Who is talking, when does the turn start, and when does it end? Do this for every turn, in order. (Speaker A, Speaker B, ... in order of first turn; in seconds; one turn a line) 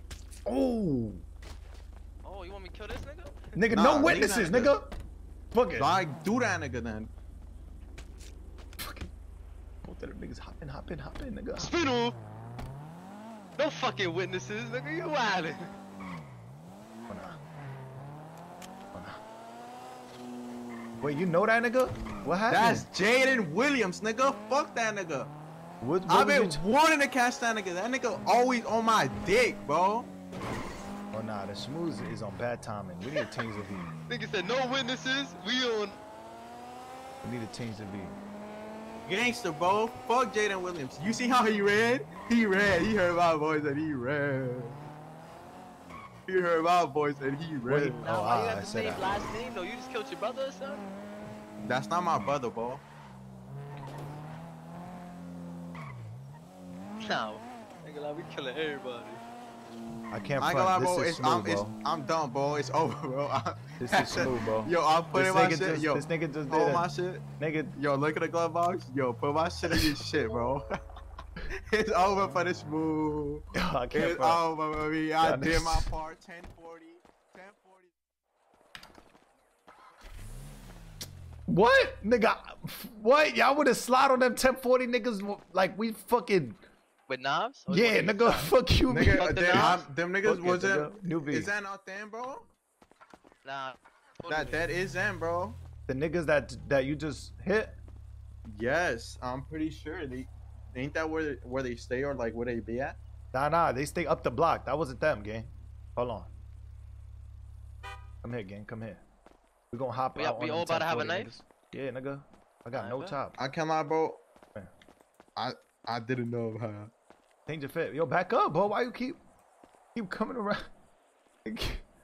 Speaker A: 0.5-1.2
Speaker B: 2.2-3.5
Speaker A: 3.5-4.9
Speaker C: 3.7-4.7
Speaker A: 5.5-6.0
Speaker C: 5.8-7.1
Speaker A: 8.8-9.1
Speaker A: 9.8-11.7
Speaker B: 11.6-12.2
Speaker B: 13.6-15.7
Speaker A: 17.1-17.4
Speaker A: 18.9-19.2
Speaker A: 21.0-22.9
Speaker C: 22.5-25.3
Speaker A: 25.8-26.6
Speaker C: 26.1-30.1
Speaker A: 31.1-33.9
Speaker B: 34.1-36.0
Speaker A: 37.2-38.2
Speaker C: 39.1-44.8
Speaker C: 46.3-48.0
Speaker A: 47.7-49.1
Speaker B: 48.0-50.9
Speaker C: 51.6-52.8
Speaker B: 57.0-59.2
Speaker A: 60.1-61.8
Speaker C: 60.4-67.2
Speaker A: 63.8-66.9
Speaker A: 67.4-67.8
Speaker C: 67.8-70.6
Speaker A: 69.6-70.0
Speaker C: 71.7-77.9
Speaker A: 73.6-74.4
Speaker A: 75.2-75.9
Speaker A: 81.5-86.6
Speaker B: 87.1-88.5
Speaker A: 87.7-91.5
Speaker C: 88.9-92.4
Speaker B: 89.1-89.8
Speaker B: 93.4-94.7
Speaker C: 94.3-95.6
Speaker A: 95.9-97.7
Speaker C: 98.5-103.0
Speaker A: 103.3-106.3
Speaker A: 108.2-109.0
Speaker A: 109.7-113.4
Speaker B: 110.2-111.3
Speaker B: 112.8-113.2
Speaker C: 113.4-114.2
Speaker C: 115.4-116.9
Speaker A: 117.5-119.2
Speaker A: 120.0-120.7
Speaker A: 121.5-121.8